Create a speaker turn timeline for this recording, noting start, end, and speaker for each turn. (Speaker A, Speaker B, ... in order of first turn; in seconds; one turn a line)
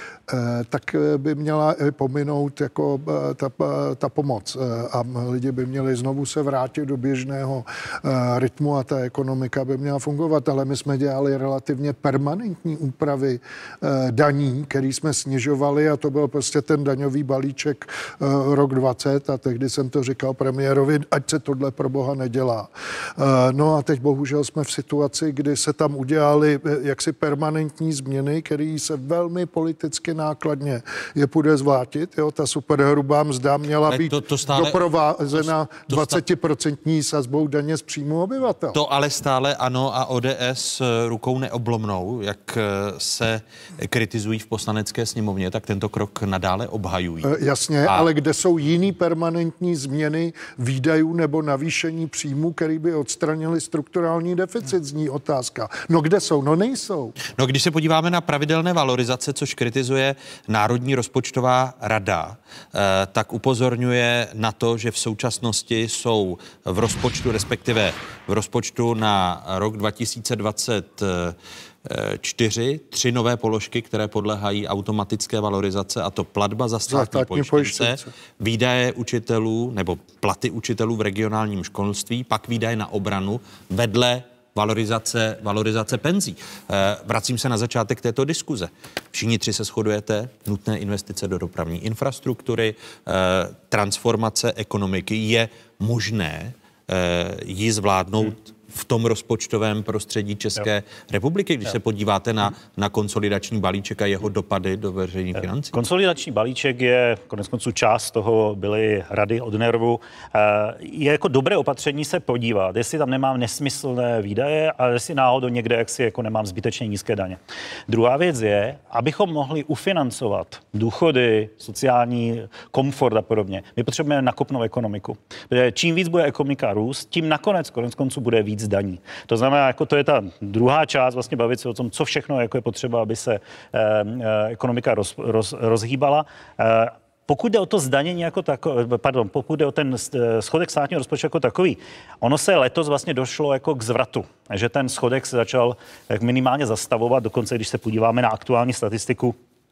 Speaker A: 0.3-38.8
Speaker B: 33.9-36.2
Speaker B: 38.7-48.1
Speaker A: 47.2-57.1
Speaker B: 57.4-105.8
Speaker A: 76.9-78.1
Speaker C: 105.4-149.3